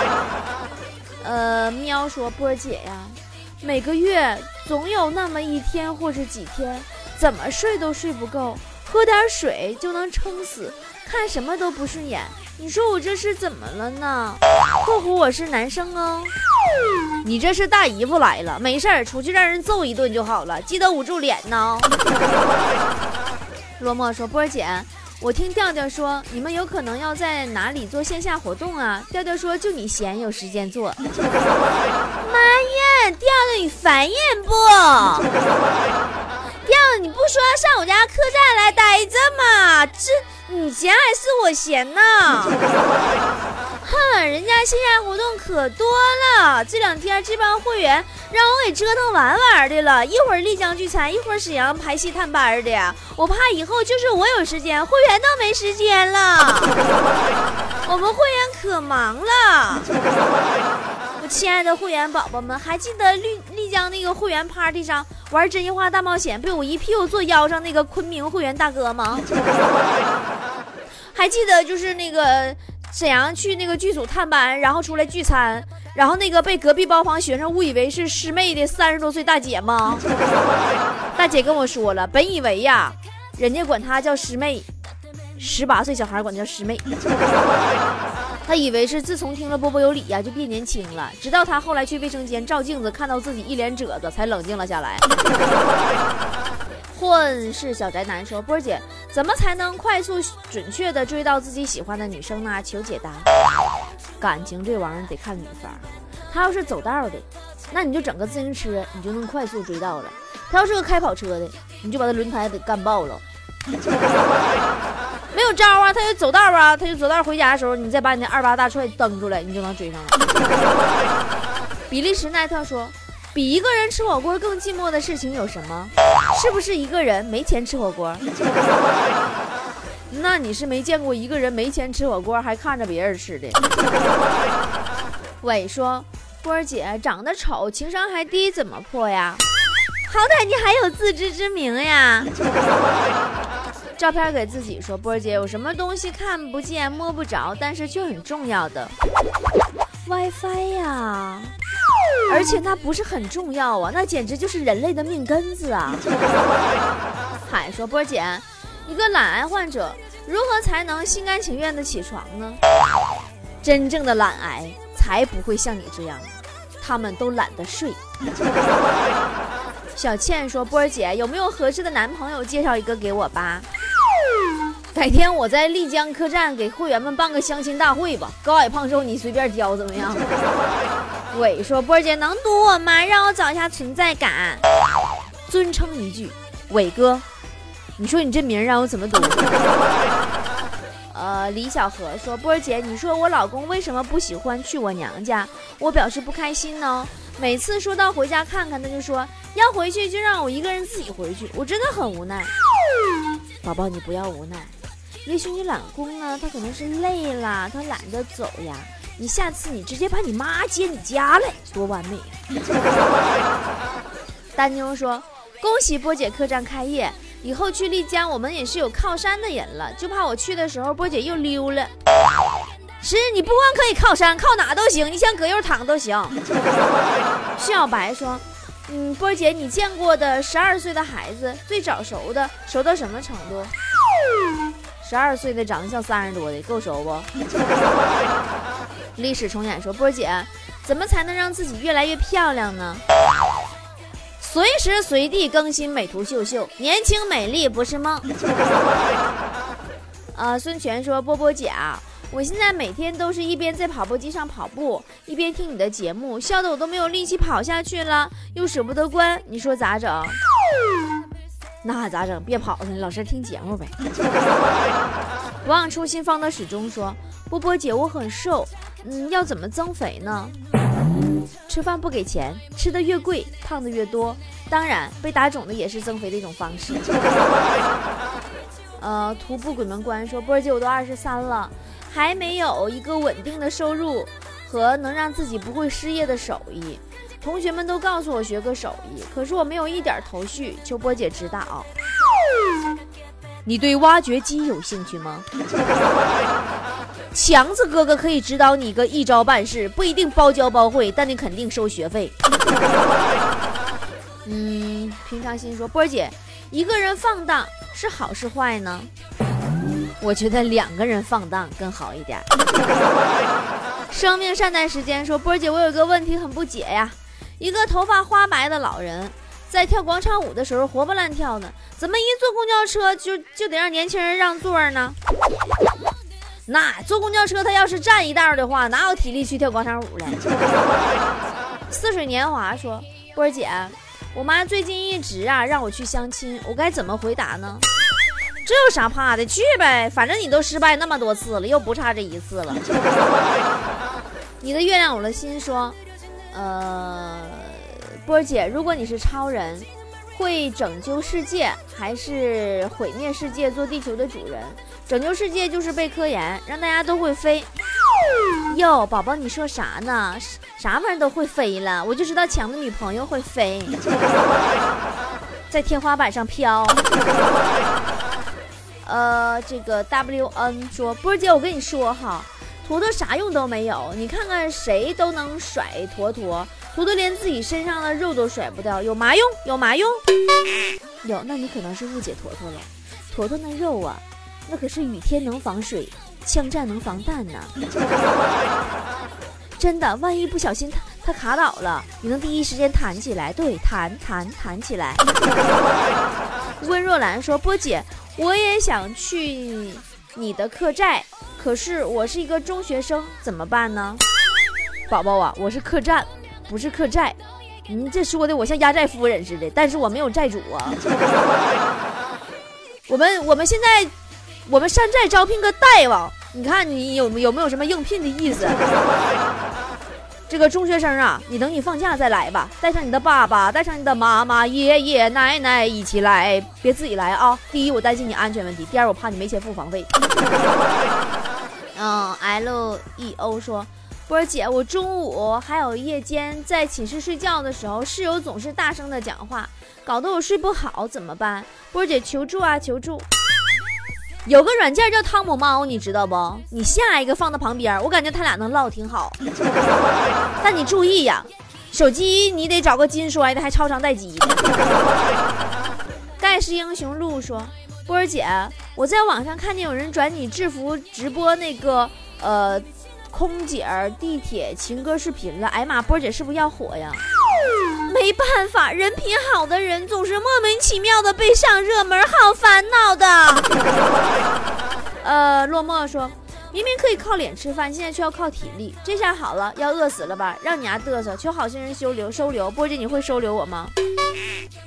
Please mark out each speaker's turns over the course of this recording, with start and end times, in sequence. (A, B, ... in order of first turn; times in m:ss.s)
0:01.2-0:16.3 A
0:17.2-0:21.9 A
0:23.8-0:31.0 A
0:32.2-0:35.3 A
0:36.6-0:42.6 A
0:43.8-0:56.8 A
0:57.9-0:59.9 A
1:01.2-1:09.3 A
1:11.1-1:20.0 A
1:21.2-1:24.7 A
1:25.4-1:26.9 A
1:28.5-1:35.1 A
1:36.9-1:43.3 A
1:44.2-1:53.2 A
1:55.3-2:00.2 A
2:01.9-2:08.2 A
2:10.1-2:13.6 A
2:15.4-2:19.4 A
2:20.1-2:22.3 A
2:24.0-2:28.9 A
2:30.1-2:31.5 A
2:32.3-2:36.0 A
2:37.4-2:42.6 A
2:43.6-2:48.0 A
2:50.0-2:53.7 A
2:54.9-3:00.3 A
3:01.3-3:04.6 A
3:05.5-3:07.2 A
3:08.0-3:09.4 A
3:11.1-3:22.5 A
3:23.6-3:24.7 A
3:25.2-3:32.4 A
3:34.6-3:41.9 A
3:43.0-3:46.4 A
3:47.6-3:53.7 A
3:55.0-3:57.3 A
3:59.2-4:03.0 A
4:04.4-4:08.3 A
4:10.3-4:20.4 A
4:21.8-4:24.0 A
4:25.6-4:30.6 A
4:31.7-4:37.1 A
4:39.0-4:51.9 A
4:53.7-4:55.5 A
4:57.3-5:02.3 A
5:04.4-5:09.1 A
5:10.2-5:12.5 A
5:14.1-5:25.2 A
5:26.7-5:30.4 A
5:31.9-5:37.9 A
5:38.6-5:42.8 A
5:44.6-5:46.0 A
5:46.5-5:57.7 A
5:58.7-6:04.0 A
6:05.7-6:07.0 A
6:09.0-6:20.2 A
6:21.2-6:27.7 A
6:29.8-6:35.2 A
6:36.8-6:44.2 A
6:45.1-6:51.0 A
6:53.1-6:54.1 A
6:54.6-6:58.8 A
7:00.5-7:10.1 A
7:12.0-7:23.3 A
7:24.5-7:29.4 A
7:30.6-7:34.6 A
7:36.4-7:47.2 A
7:48.1-7:53.7 A
7:55.2-8:03.9 A